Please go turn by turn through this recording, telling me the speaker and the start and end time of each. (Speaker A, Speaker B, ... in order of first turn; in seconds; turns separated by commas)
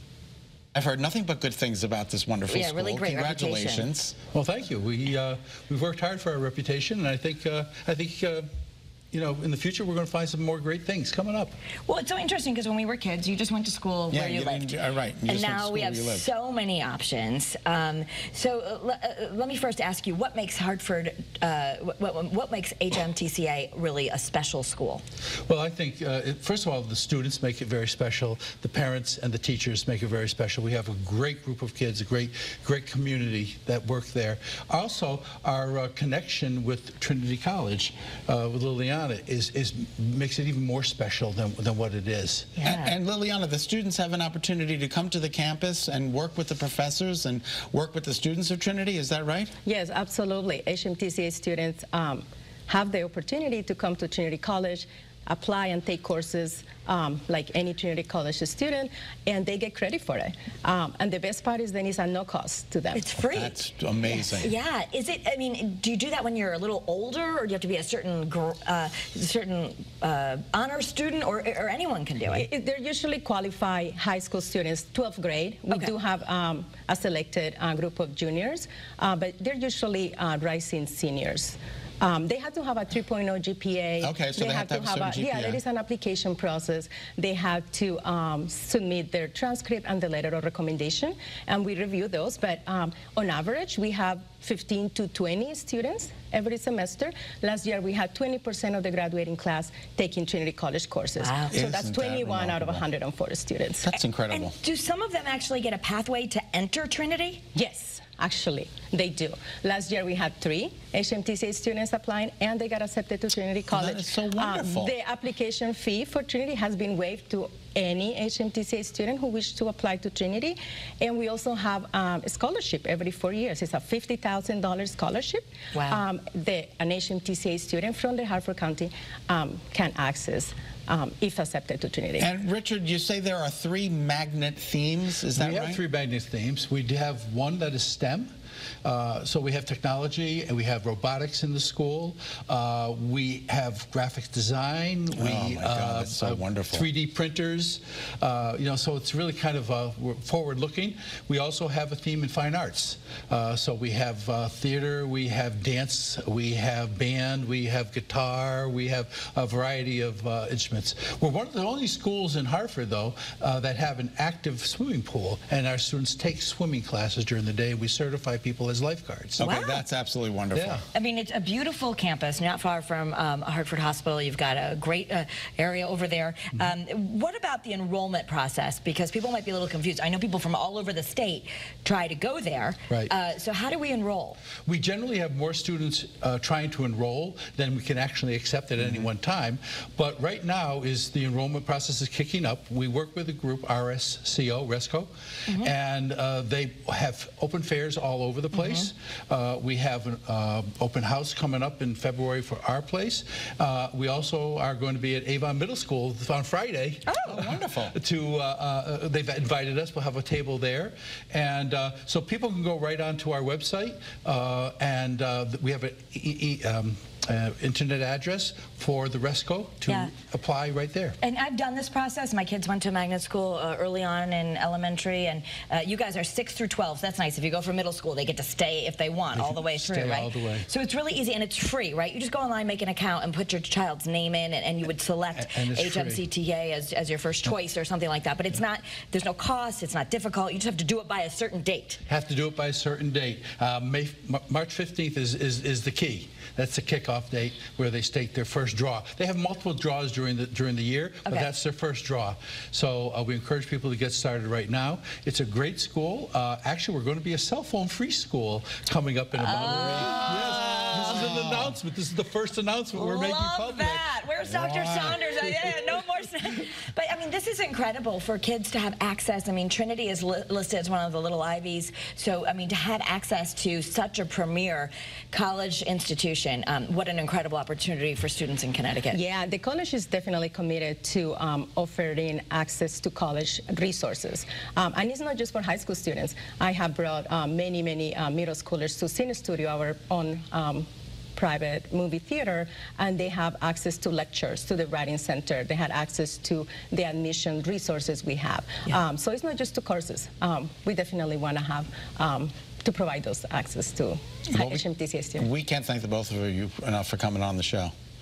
Speaker A: 0.7-4.2, Speaker B: 2.5-3.9, Speaker C: 4.3-8.5, Speaker C: 9.1-11.6, Speaker B: 11.8-25.0, Speaker A: 14.1-16.3, Speaker C: 25.5-42.6, Speaker B: 42.6-43.0, Speaker A: 42.6-49.5, Speaker D: 49.6-63.1, Speaker B: 62.9-72.5, Speaker A: 63.2-64.5, Speaker D: 72.3-103.9, Speaker A: 84.0-85.6, Speaker B: 101.2-101.5, Speaker A: 101.5-102.8, Speaker A: 103.9-104.5, Speaker B: 104.3-107.4, Speaker D: 107.5-132.3, Speaker A: 113.7-114.9, Speaker B: 125.7-126.0, Speaker A: 132.2-135.8, Speaker C: 135.3-138.3, Speaker C: 138.8-169.4, Speaker A: 145.1-146.9, Speaker A: 169.4-170.8, Speaker B: 169.4-169.8, Speaker C: 170.5-170.8, Speaker B: 170.9-184.4, Speaker C: 184.6-221.2, Speaker B: 198.5-198.9, Speaker A: 207.2-207.9, Speaker B: 219.9-220.1, Speaker B: 221.2-242.0, Speaker C: 229.3-230.7, Speaker C: 235.3-236.2, Speaker C: 242.1-265.8, Speaker B: 259.4-261.3, Speaker B: 262.9-279.2, Speaker D: 279.1-305.5, Speaker A: 304.5-304.8, Speaker A: 305.4-307.9